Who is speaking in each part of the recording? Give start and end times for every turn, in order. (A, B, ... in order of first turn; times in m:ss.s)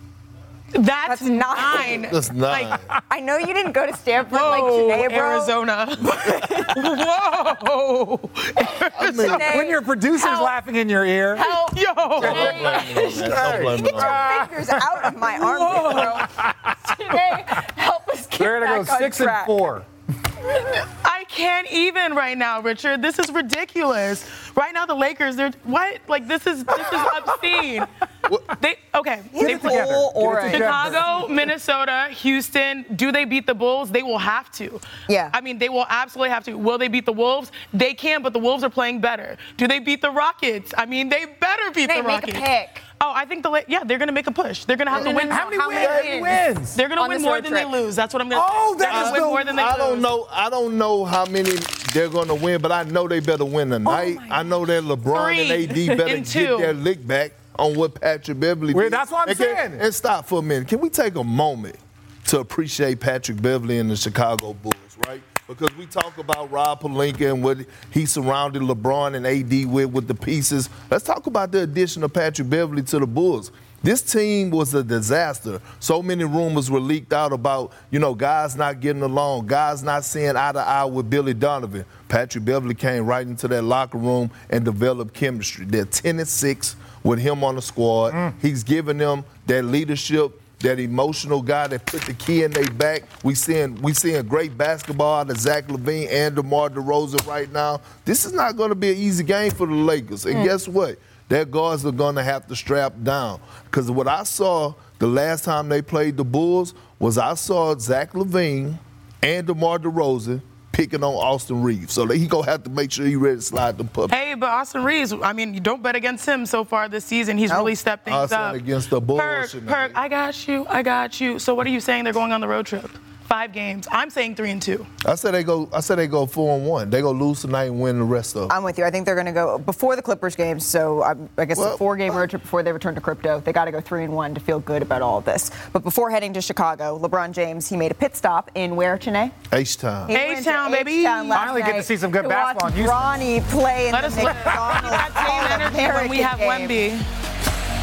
0:00.8-0:02.7 A
0:01.1-0:02.1 B
0:01.8-0:02.9 C
0:03.1-0:05.5 B
0:04.3-0:09.6 A
0:06.1-0:06.9 B
0:09.0-0:09.5 C
0:09.1-0:10.5 B
0:09.5-0:11.5 D
0:11.3-0:19.6 B
0:11.4-0:13.1 A
0:12.2-0:14.3 C
0:12.2-0:15.1 D
0:15.4-0:16.2 A
0:15.8-0:16.7 D
0:18.4-0:19.9 D
0:21.0-0:27.9 A
0:28.5-0:42.4 A
0:29.3-0:31.0 B
0:29.4-0:31.2 D
0:35.1-0:35.3 B
0:41.9-0:42.8 B
0:43.0-0:46.0 A
0:44.9-0:46.4 B
0:45.3-0:46.8 D
0:45.8-0:46.0 C
0:46.7-0:50.1 A
0:47.0-0:47.7 B
0:48.3-0:49.5 D
0:48.9-1:54.1 C
0:53.9-0:54.4 B
0:55.1-0:56.7 A
0:58.7-0:59.8 D
1:28.1-1:28.3 D
1:54.1-1:58.6 A
1:57.5-2:00.0 C
1:59.1-2:04.9 A
2:05.0-2:08.5 C
2:08.5-2:19.3 B
2:11.6-2:12.2 C
2:19.5-2:20.1 C
2:20.1-2:26.9 B
2:20.1-2:21.6 A
2:21.3-2:23.1 D
2:23.9-2:27.0 A